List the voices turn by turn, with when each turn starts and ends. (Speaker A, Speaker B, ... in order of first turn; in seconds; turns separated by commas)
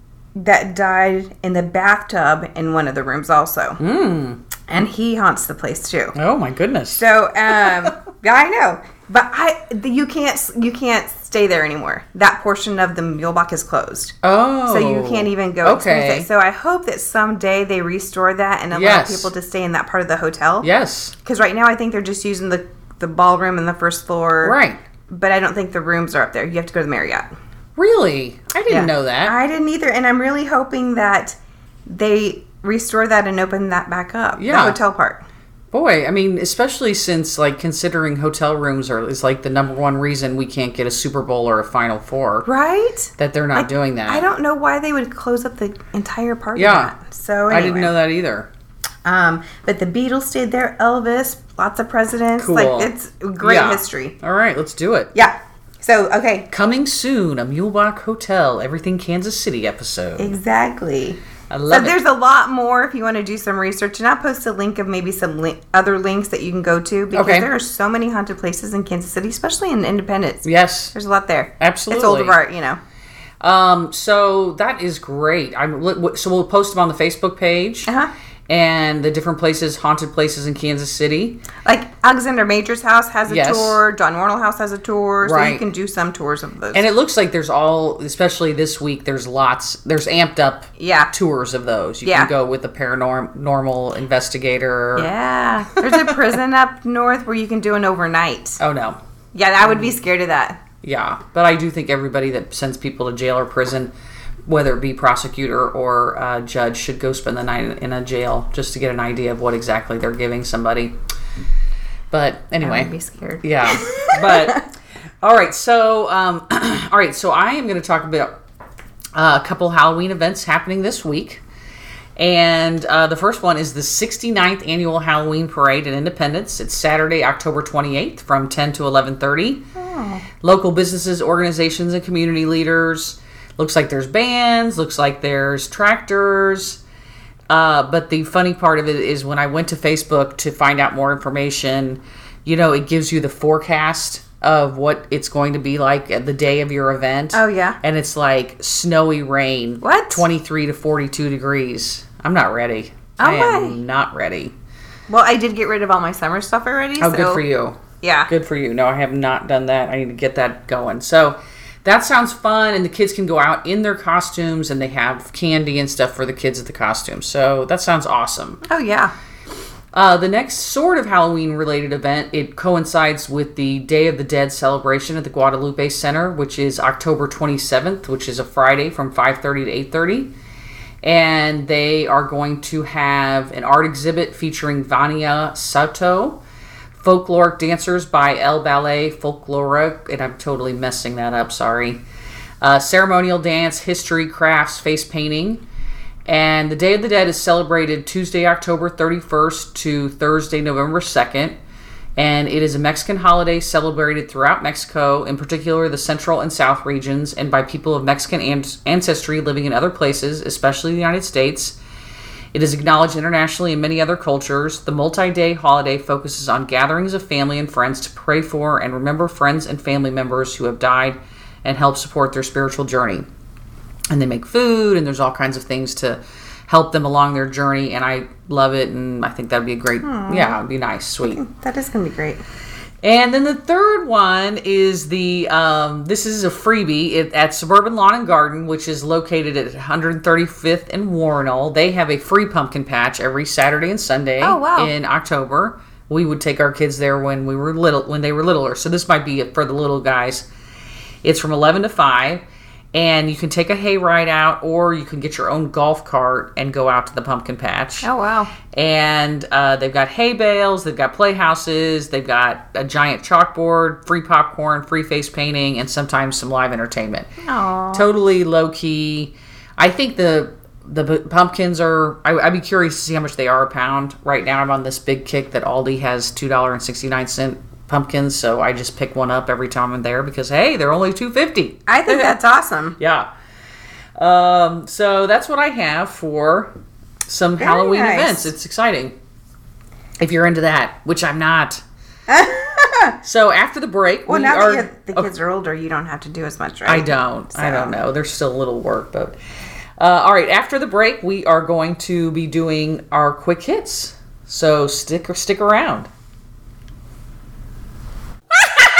Speaker A: 0.3-3.8, Speaker B: 3.8-4.4, Speaker A: 4.7-6.2, Speaker B: 6.2-7.9, Speaker A: 7.0-14.2, Speaker B: 14.2-16.3, Speaker A: 14.7-20.7, Speaker B: 18.7-19.3, Speaker B: 20.6-21.1, Speaker A: 21.2-24.6, Speaker B: 24.4-24.8, Speaker A: 25.1-27.3, Speaker B: 27.8-29.4, Speaker A: 28.7-35.2, Speaker B: 34.4-34.8, Speaker B: 35.7-42.5, Speaker A: 42.5-47.9, Speaker B: 43.2-44.2, Speaker B: 46.5-46.9, Speaker B: 47.5-48.5, Speaker A: 49.0-54.2, Speaker B: 52.4-55.1, Speaker A: 55.1-56.5, Speaker B: 56.5-60.3, Speaker A: 60.2-72.8, Speaker B: 61.5-62.0, Speaker B: 67.1-67.5, Speaker B: 70.4-70.9, Speaker B: 71.6-72.4, Speaker B: 73.4-77.9, Speaker B: 78.5-81.4, Speaker A: 81.7-86.8, Speaker B: 83.3-83.8, Speaker B: 85.2-85.6, Speaker B: 86.7-95.1, Speaker A: 90.8-91.1, Speaker A: 92.0-92.3, Speaker A: 95.0-98.6, Speaker B: 98.6-99.0, Speaker A: 99.3-100.6, Speaker B: 100.8-103.9, Speaker B: 104.5-111.0, Speaker B: 112.1-112.9, Speaker A: 112.6-114.7, Speaker B: 113.4-114.7, Speaker B: 115.2-118.3, Speaker B: 119.1-121.4, Speaker B: 122.2-129.6, Speaker A: 129.8-130.2, Speaker B: 130.4-136.8, Speaker B: 137.5-154.5, Speaker A: 147.3-147.8, Speaker A: 149.8-150.2, Speaker A: 153.2-153.8, Speaker A: 155.1-157.4, Speaker B: 157.0-168.6, Speaker A: 158.0-158.3, Speaker A: 168.7-169.1, Speaker B: 169.9-180.3, Speaker B: 181.0-186.4, Speaker B: 187.0-192.0, Speaker B: 192.6-195.6, Speaker B: 196.3-201.6, Speaker B: 202.2-211.8, Speaker B: 212.5-223.3, Speaker B: 224.1-231.4, Speaker A: 230.0-230.6, Speaker A: 231.3-232.4, Speaker B: 233.0-250.5, Speaker A: 244.4-244.9, Speaker B: 251.2-252.4, Speaker B: 252.9-258.1, Speaker A: 258.0-258.5, Speaker B: 258.7-267.3, Speaker A: 267.4-268.1, Speaker B: 267.9-282.4, Speaker A: 281.9-283.0, Speaker B: 283.0-283.3, Speaker B: 284.2-286.7, Speaker B: 287.3-289.1, Speaker A: 287.6-288.5, Speaker B: 290.2-291.8, Speaker A: 292.3-293.2, Speaker B: 293.2-295.3, Speaker A: 294.3-297.9, Speaker B: 296.9-299.4, Speaker B: 300.0-306.1